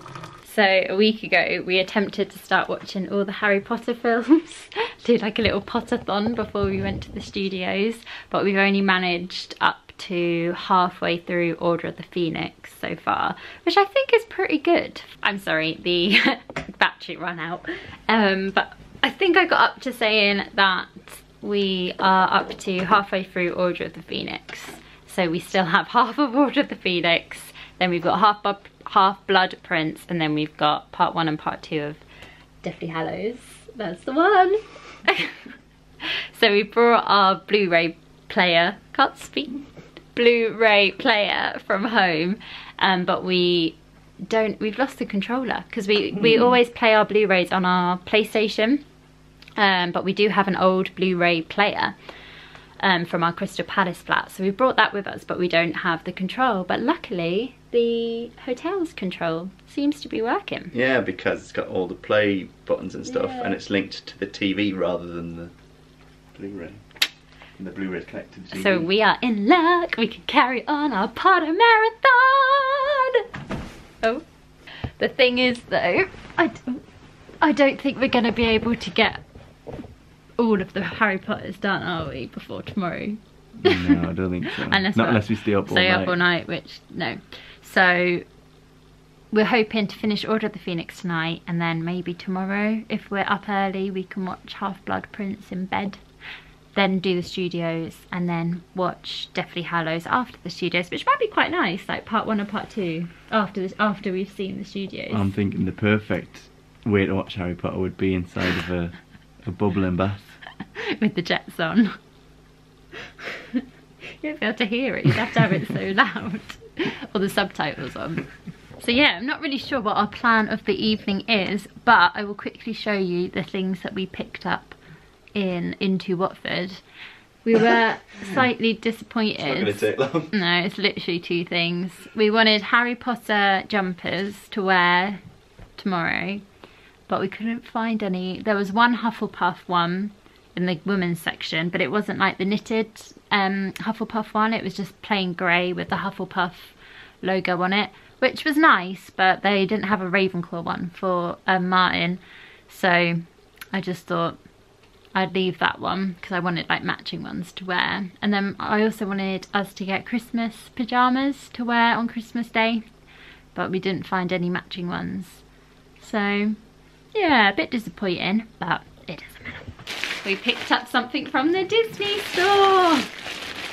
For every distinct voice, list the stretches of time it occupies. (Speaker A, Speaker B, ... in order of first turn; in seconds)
Speaker A: 0.4-32.0, 32.6-35.4, 36.0-39.6, 40.1-48.8, 49.6-51.9, 52.8-60.7, 63.0-63.6, 68.5-73.2, 74.8-76.8, 77.4-79.2, 80.4-83.9, 84.5-88.2, 89.3-96.0, 96.7-105.3, 110.8-112.0, 113.3-124.8, 125.3-126.8, 127.4-135.2, 135.8-136.4, 137.1-154.4, 155.1-162.8, 163.5-165.4, 166.0-166.6, 167.1-169.7, 170.2-173.1
Speaker B: 60.7-65.5, 66.3-66.8, 67.6-68.9, 83.6-86.2, 105.1-110.3, 129.4-130.3